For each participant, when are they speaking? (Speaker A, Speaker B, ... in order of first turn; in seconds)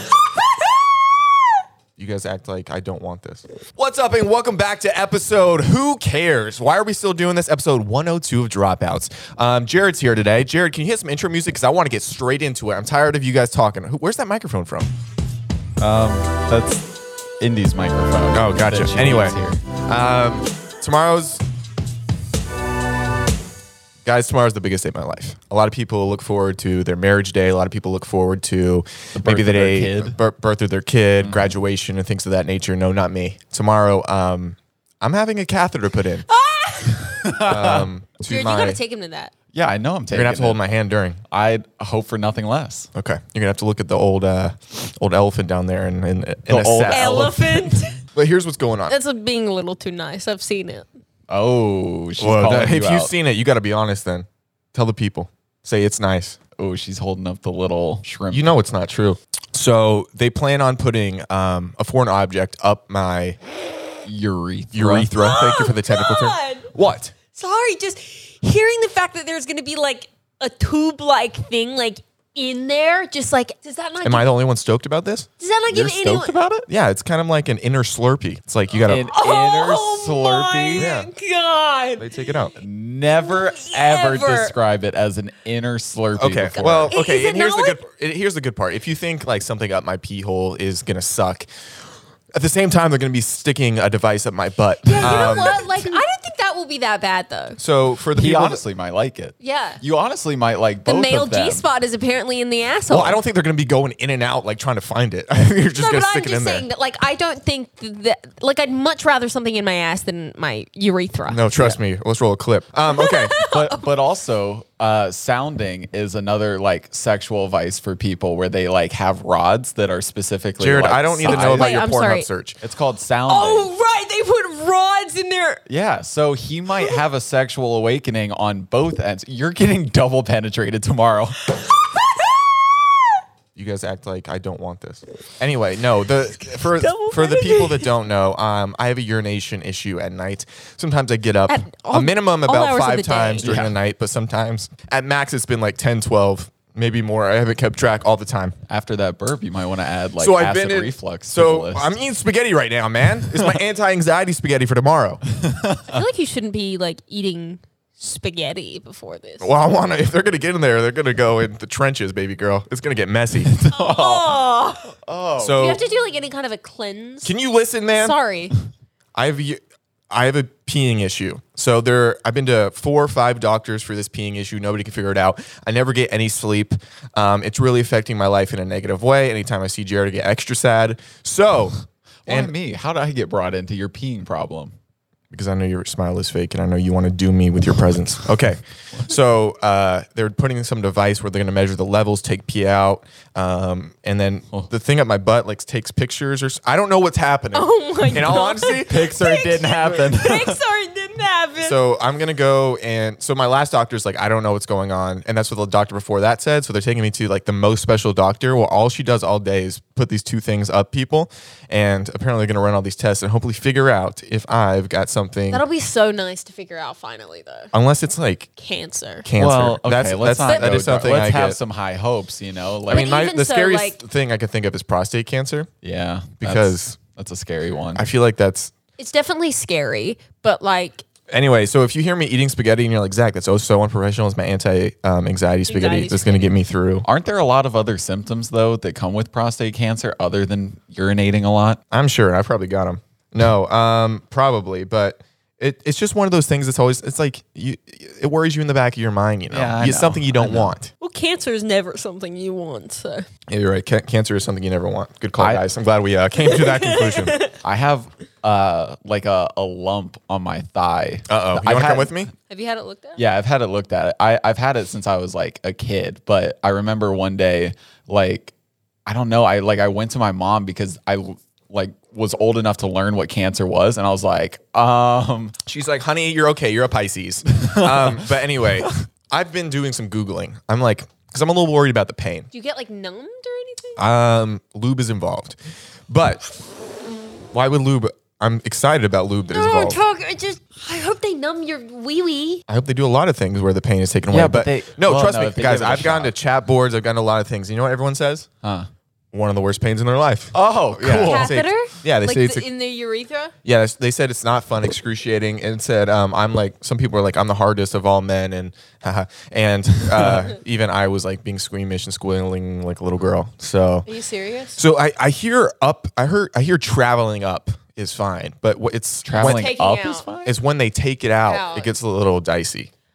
Speaker A: 0.1-0.7, 36.3-37.4, 38.2-39.3, 46.9-48.0, 48.9-50.9, 65.1-66.7, 67.3-74.3, 75.4-76.3, 78.9-82.4, 83.2-84.5, 86.9-87.8, 94.9-97.6, 99.4-99.8, 100.8-103.2, 105.7-111.4, 112.9-113.9, 121.2-122.3, 123.3-125.6, 131.6-132.3, 136.6-137.9, 141.5-143.5, 155.9-159.5, 163.7-164.9, 165.6-167.3, 168.0-168.5, 197.5-201.8, 215.5-217.7, 218.6-219.3, 220.5-220.7, 222.9-224.0, 229.0-231.0, 235.7-236.5, 251.0-253.3, 256.4-257.6, 262.5-263.2, 282.5-284.0, 289.5-292.6, 301.2-303.5, 314.1-314.8, 319.4-320.3, 321.5-321.9
Speaker B: 2.0-14.9, 18.3-21.4, 24.0-36.2, 37.5-38.8, 40.1-41.2, 42.9-47.3, 48.1-49.0, 52.2-56.4, 58.3-63.4, 64.7-67.2, 74.0-75.3, 76.7-79.1, 80.8-81.1, 82.0-82.5, 86.2-91.5, 92.3-96.0, 97.6-98.6, 102.9-106.7, 111.3-113.3, 120.6-122.6, 133.5-148.6, 150.2-155.2, 159.4-163.5, 165.4-165.8, 167.2-168.2, 169.1-169.6, 170.1-181.8, 182.3-182.5, 185.3-199.1, 201.6-215.6, 217.7-218.5, 219.2-221.6, 222.9-225.7, 226.4-226.9, 227.9-228.7, 231.3-237.1, 241.9-250.9, 253.5-257.4, 261.3-262.3, 275.6-282.5, 284.0-285.6, 286.1-286.5, 287.5-290.0, 292.7-298.5, 299.3-302.6, 303.6-314.1, 314.7-319.7, 320.4-322.9
Speaker C: 15.8-16.9, 17.4-19.6, 29.1-30.2, 31.2-31.5, 36.9-37.9, 39.5-40.6, 41.3-42.9, 46.5-47.8, 51.3-53.1, 56.6-58.5, 64.0-65.1, 75.7-76.7, 78.9-80.9, 82.6-86.9, 94.9-95.4, 98.1-101.6, 113.4-121.8, 122.6-123.7, 125.7-131.4, 143.4-143.7, 148.7-151.9, 155.3-156.0, 163.4-164.4, 165.0-165.7, 182.2-184.7, 198.7-200.6, 219.4-223.1, 225.8-228.1, 237.0-241.8, 249.5-250.7, 255.4-255.6, 257.6-262.2, 263.1-268.5, 269.1-275.5, 277.5-278.3, 294.3-296.3, 298.6-298.9, 300.5-301.6, 319.2-320.5